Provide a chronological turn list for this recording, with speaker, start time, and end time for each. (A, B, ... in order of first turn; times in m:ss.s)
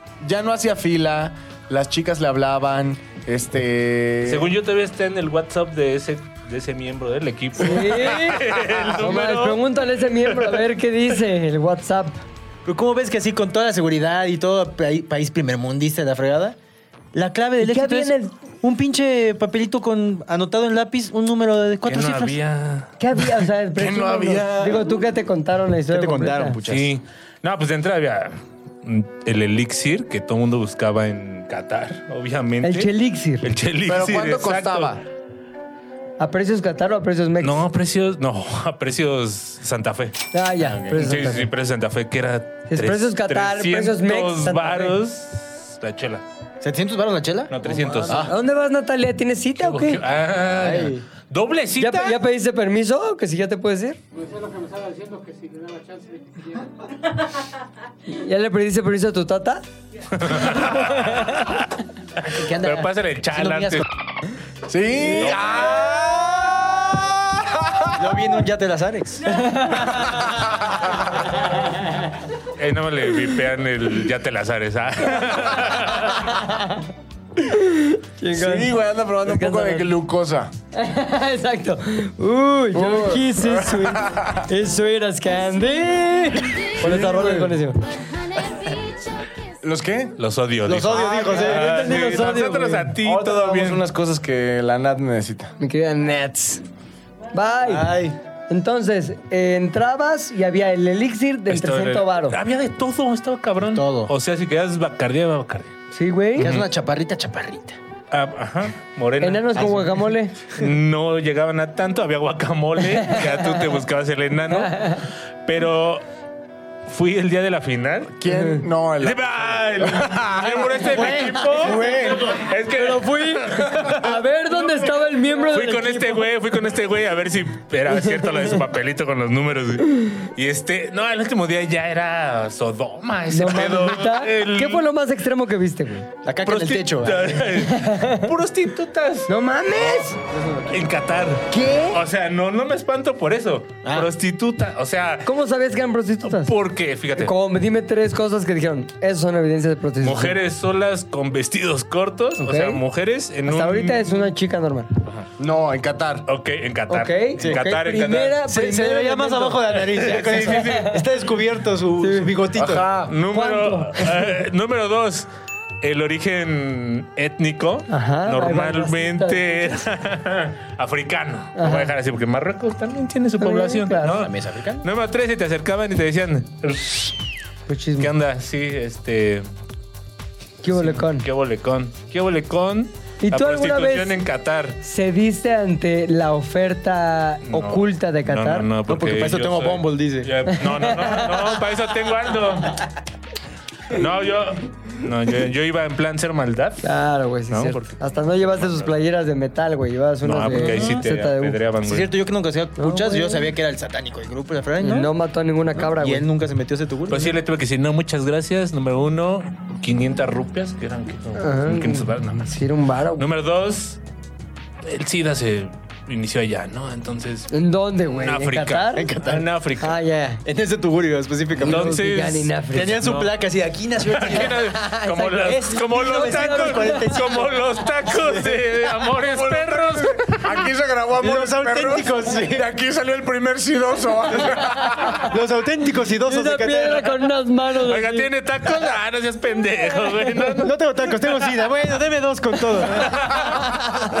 0:00.2-0:04.5 A
0:04.2-0:09.6 B
0:07.6-0:12.2 C
0:12.6-0:16.6 D
0:17.1-0:22.4 D
0:17.6-0:18.3 C
0:21.8-0:22.9 B
0:23.0-0:26.6 C
0:23.8-0:24.9 A
0:25.9-0:26.9 D
0:26.6-0:32.9 B
0:32.6-0:33.5 C
0:33.4-0:35.0 B
0:33.8-0:35.0 A
0:36.2-0:37.6 C
0:37.4-0:40.2 B
0:40.3-0:41.5 C
0:40.8-0:46.2 B
0:42.7-0:45.0 C
0:46.6-0:48.3 D
0:47.5-0:48.3 B
0:48.1-0:50.0 C
0:49.6-0:52.2 B
0:50.5-0:51.0 D
0:51.8-0:54.0 C
0:58.1-0:59.6 C
1:00.1-1:01.7 B
1:02.3-1:03.8 D
1:02.3-1:03.8 B
1:04.7-1:08.0 A
1:05.2-1:05.7 B
1:08.0-1:10.2 D
1:09.4-1:09.9 C
1:10.1-1:11.1 A
1:12.6-1:16.3 B
1:16.2-1:16.7 C
1:17.4-1:18.7 C
1:18.3-1:20.5 A
1:19.2-1:19.9 C
1:20.7-1:27.8 C
1:22.7-1:24.4 A
1:26.8-1:27.5 A
1:29.6-1:30.2 A
1:30.2-1:33.8 B
1:30.6-1:32.4 D
1:30.9-1:32.9 C
1:32.9-1:35.5 A
1:35.6-1:36.6 C
1:37.3-1:37.9 C
1:37.6-1:38.2 D
1:38.5-1:42.4 C
1:41.5-1:45.7 B
1:43.7-1:44.1 D
1:45.9-1:46.5 C
1:46.4-1:47.8 D
1:46.4-1:46.7 B
1:48.1-1:49.7 B
1:49.2-1:50.3 C
1:49.6-1:50.0 D
1:50.5-1:56.0 B
1:52.9-1:53.6 C
1:54.5-1:55.0 C
1:56.9-1:58.2 B
1:58.2-2:00.7 A
1:58.3-1:58.6 C
1:59.0-2:04.0 B
2:00.6-2:02.4 D
2:02.8-2:06.3 C
2:05.5-2:14.8 B
2:07.9-2:08.3 C
2:13.3-2:16.1 C
2:16.2-2:17.5 D
2:16.4-2:19.3 B
2:17.6-2:18.3 C
2:19.3-2:20.2 C
2:20.3-2:20.7 D
2:20.7-2:25.3 B
2:21.5-2:22.0 C
2:25.2-2:26.5 C
2:26.2-2:27.3 B
2:27.2-2:30.4 C
2:30.0-2:34.0 B
2:32.4-2:32.8 C
2:33.4-2:34.9 C
2:35.4-2:36.3 A
2:36.3-2:38.4 B
2:36.9-2:39.8 C
2:38.4-2:42.8 D
2:39.9-2:40.9 B
2:40.3-2:41.0 C
2:42.0-2:42.3 C
2:42.5-2:43.1 A
2:43.0-2:45.3 B
2:43.3-2:44.3 C
2:45.8-2:57.1 B
2:47.9-2:49.7 C
2:51.6-2:51.9 C
2:53.4-2:54.2 C
2:54.1-2:54.8 D
2:57.7-2:58.1 C
2:58.0-2:59.5 B
3:00.6-3:01.2 C
3:00.7-3:04.8 B
3:03.2-3:04.2 C
3:04.8-3:08.7 C
3:07.5-3:12.8 B
3:08.9-3:10.3 D
3:10.5-3:11.5 C
3:13.9-3:16.8 B
3:16.8-3:21.6 C
3:17.5-3:18.9 B
3:20.2-3:22.1 B
3:20.5-3:21.0 D
3:21.8-3:25.1 D
3:22.8-3:23.5 C
3:24.8-3:26.2 C
3:25.8-3:27.3 D
3:27.1-3:32.6 B
3:31.4-3:33.2 C
3:33.2-3:34.0 B
3:34.8-3:37.5 B
3:37.5-3:39.1 C
3:38.1-3:40.0 B
3:38.5-3:39.5 D
3:39.8-3:40.4 C
3:40.4-3:41.9 D
3:41.6-3:43.3 B
3:41.6-3:43.0 C
3:42.7-3:48.6 D
3:44.0-3:50.6 B
3:44.8-3:47.2 C
3:49.2-3:55.3 A
3:51.2-3:52.6 D
3:55.2-3:57.1 D
3:56.2-3:58.3 C
3:57.8-4:00.8 B
4:00.6-4:03.4 D
4:03.0-4:03.4 B